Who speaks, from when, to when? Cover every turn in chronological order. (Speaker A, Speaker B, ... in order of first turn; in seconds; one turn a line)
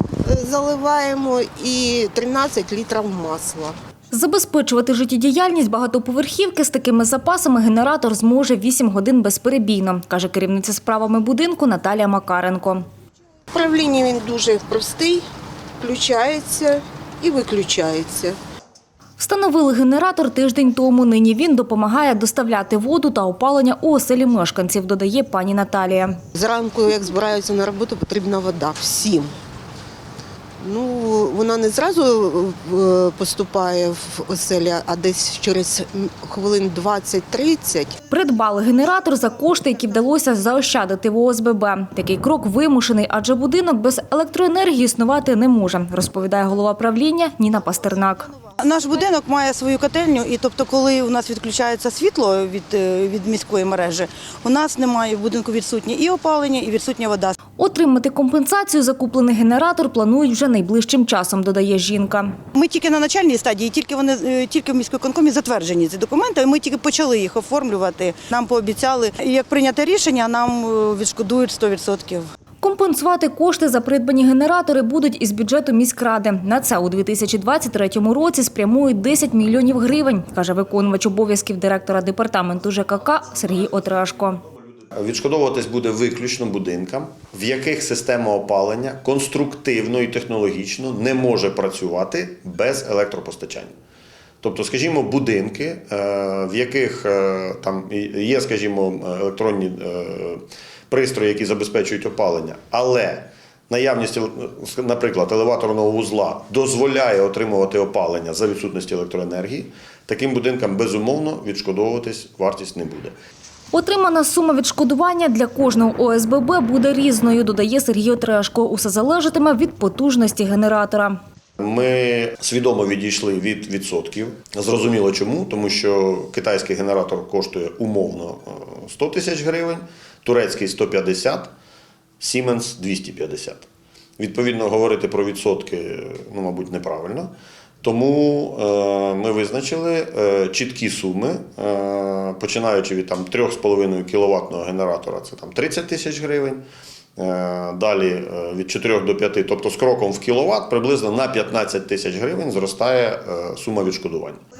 Speaker A: 0.2-3.7
Speaker B: 4.1-12.8
Speaker A: 13.5-15.2
Speaker A: 15.8-18.4
Speaker B: 19.2-26.2
Speaker A: 26.3-29.3
Speaker A: 30.6-38.0
Speaker B: 38.1-48.3
Speaker C: 48.6-57.4
Speaker B: 57.6-62.4
Speaker C: 62.5-72.3
Speaker B: 72.6-84.4
Speaker D: 84.9-93.7
Speaker D: 94.4-113.1
Speaker B: 113.7-121.2
Speaker D: 121.6-131.5
Speaker D: 132.2-133.7
Speaker D: 134.2-137.3
Speaker D: 137.8-146.6
Speaker D: 147.2-154.4